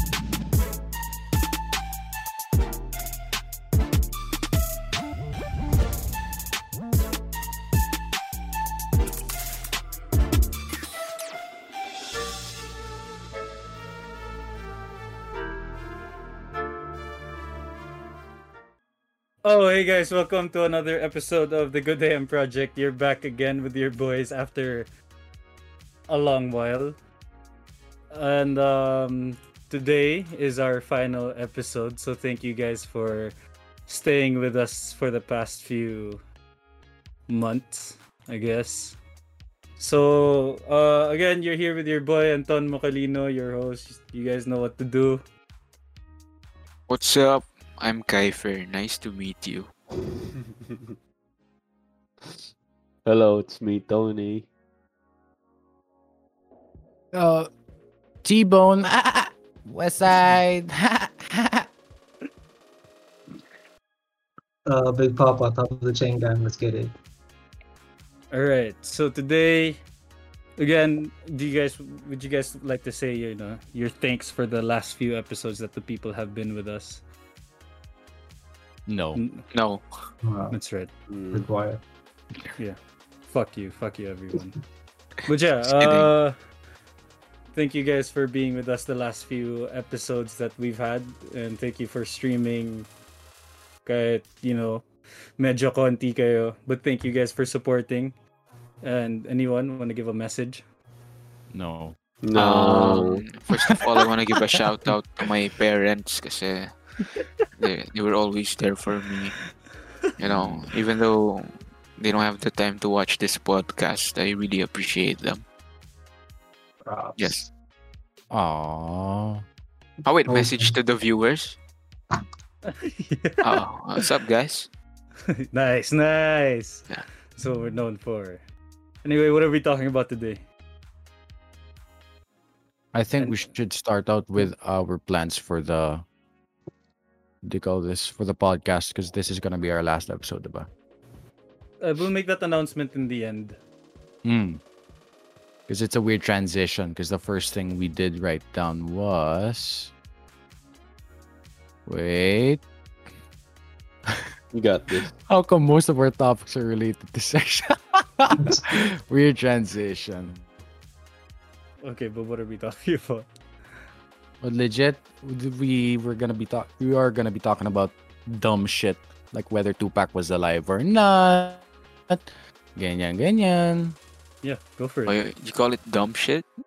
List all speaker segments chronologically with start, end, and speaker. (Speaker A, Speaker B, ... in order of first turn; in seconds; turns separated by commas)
Speaker A: 19.4-24.9, Speaker A: 26.1-27.0, Speaker A: 28.1-33.3, Speaker A: 33.9-36.2, Speaker A: 37.3-39.0, Speaker A: 39.8-45.2, Speaker B: 46.9-49.7, Speaker C: 53.0-54.5, Speaker D: 57.1-57.5, Speaker D: 58.2-61.7, Speaker E: 64.7-66.9, Speaker A: 68.3-69.8, Speaker A: 70.6-77.0, Speaker D: 78.9-79.2, Speaker A: 79.1-79.5, Speaker B: 79.5-79.8, Speaker E: 80.2-80.6, Speaker A: 80.5-80.9, Speaker C: 81.1-81.5, Speaker E: 81.3-81.8, Speaker A: 82.6-84.6, Speaker A: 85.2-86.3, Speaker B: 85.7-86.1, Speaker A: 87.5-92.9, Speaker A: 93.8-94.9, Speaker A: 95.4-98.2, Speaker A: 98.8-100.6, Speaker D: 101.5-102.0, Speaker C: 102.2-103.2, Speaker B: 102.3-106.7, Speaker B: 107.6-109.4, Speaker B: 110.2-115.4, Speaker D: 110.2-110.7, Speaker E: 116.8-117.4, Speaker B: 117.2-117.5, Speaker D: 118.3-119.4, Speaker B: 120.0-121.6, Speaker E: 120.2-120.7, Speaker A: 122.7-123.6, Speaker B: 123.4-124.7, Speaker A: 125.5-128.4, Speaker A: 129.0-130.4, Speaker D: 132.9-136.1, Speaker A: 133.2-133.5, Speaker D: 137.4-140.7, Speaker A: 141.8-143.6, Speaker D: 144.2-144.6, Speaker D: 145.7-149.9, Speaker D: 151.9-152.6, Speaker C: 154.5-155.1, Speaker D: 155.2-160.4, Speaker A: 161.8-163.3, Speaker D: 164.4-174.0, Speaker A: 174.4-175.2, Speaker B: 175.1-176.5